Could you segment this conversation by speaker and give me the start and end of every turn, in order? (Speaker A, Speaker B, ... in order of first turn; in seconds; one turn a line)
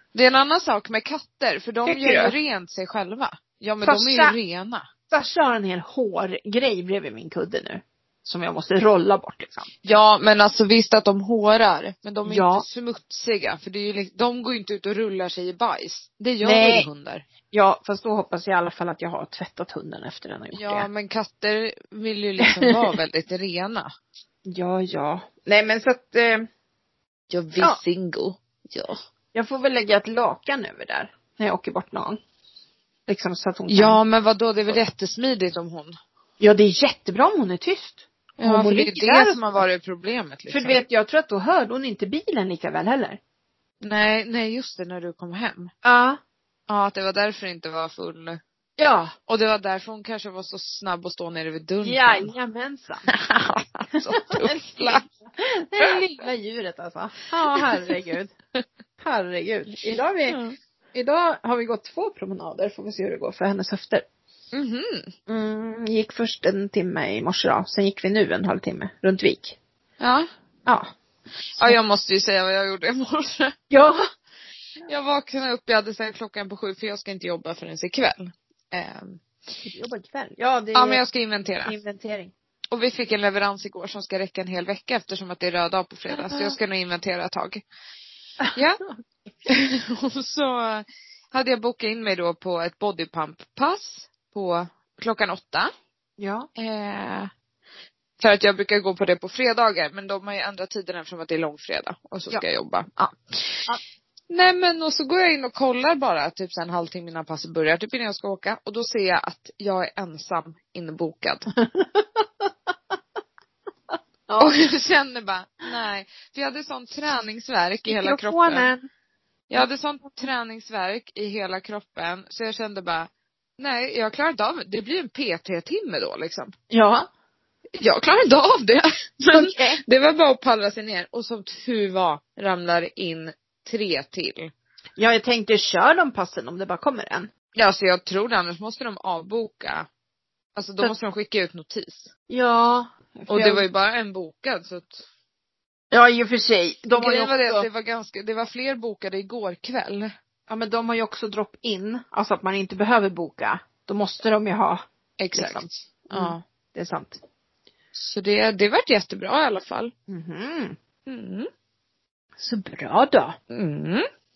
Speaker A: 0.1-4.9
Speaker B: 1.9-2.3
Speaker B: 3.8-4.4
Speaker B: 5.1-9.7
Speaker A: 9.8-17.2
Speaker B: 12.2-12.7
Speaker B: 16.4-16.9
Speaker B: 17.5-20.9
Speaker A: 20.5-23.9
Speaker B: 24.5-26.5
Speaker A: 27.3-29.0
Speaker B: 29.3-32.2
Speaker B: 33.1-34.0
Speaker A: 33.7-36.0
Speaker B: 36.4-39.6
Speaker A: 38.4-40.8
Speaker B: 40.5-43.2
Speaker A: 43.8-45.7
Speaker B: 45.8-46.2
Speaker A: 46.7-48.4
Speaker B: 48.8-49.1
Speaker A: 49.3-52.3
Speaker B: 51.8-53.1
Speaker A: 53.1-55.0
Speaker B: 54.3-58.3
Speaker A: 57.5-58.0
Speaker B: 59.0-60.4
Speaker A: 60.3-60.6
Speaker B: 60.9-64.0
Speaker A: 64.5-65.1
Speaker B: 65.3-69.6
Speaker A: 70.0-70.3
Speaker A: 71.6-73.5
Speaker B: 73.7-74.0
Speaker A: 74.9-79.2
Speaker B: 79.6-81.0
Speaker A: 80.7-81.7
Speaker B: 81.7-82.3
Speaker A: 82.7-87.6
Speaker B: 86.1-86.6
Speaker B: 88.4-88.9
Speaker A: 88.5-88.8
Speaker A: 89.5-95.7
Speaker B: 96.2-96.5
Speaker A: 96.6-97.3
Speaker A: 98.2-103.6
Speaker A: 104.3-111.5
Speaker B: 111.6-112.2
Speaker B: 114.3-114.5
Speaker A: 114.4-118.7
Speaker B: 117.9-118.9
Speaker A: 119.5-126.5
Speaker B: 126.7-127.1
Speaker A: 127.8-134.5
Speaker B: 129.3-129.8
Speaker B: 135.0-137.3
Speaker A: 137.6-139.9
Speaker A: 140.6-142.1
Speaker B: 142.3-143.7
Speaker A: 143.3-145.1
Speaker B: 145.9-147.7
Speaker A: 147.0-150.1
Speaker B: 150.5-154.8
Speaker A: 155.2-156.4
Speaker B: 155.3-157.2
Speaker A: 157.9-159.9
Speaker B: 160.1-160.8
Speaker A: 161.1-161.5
Speaker B: 162.4-163.4
Speaker A: 163.5-164.1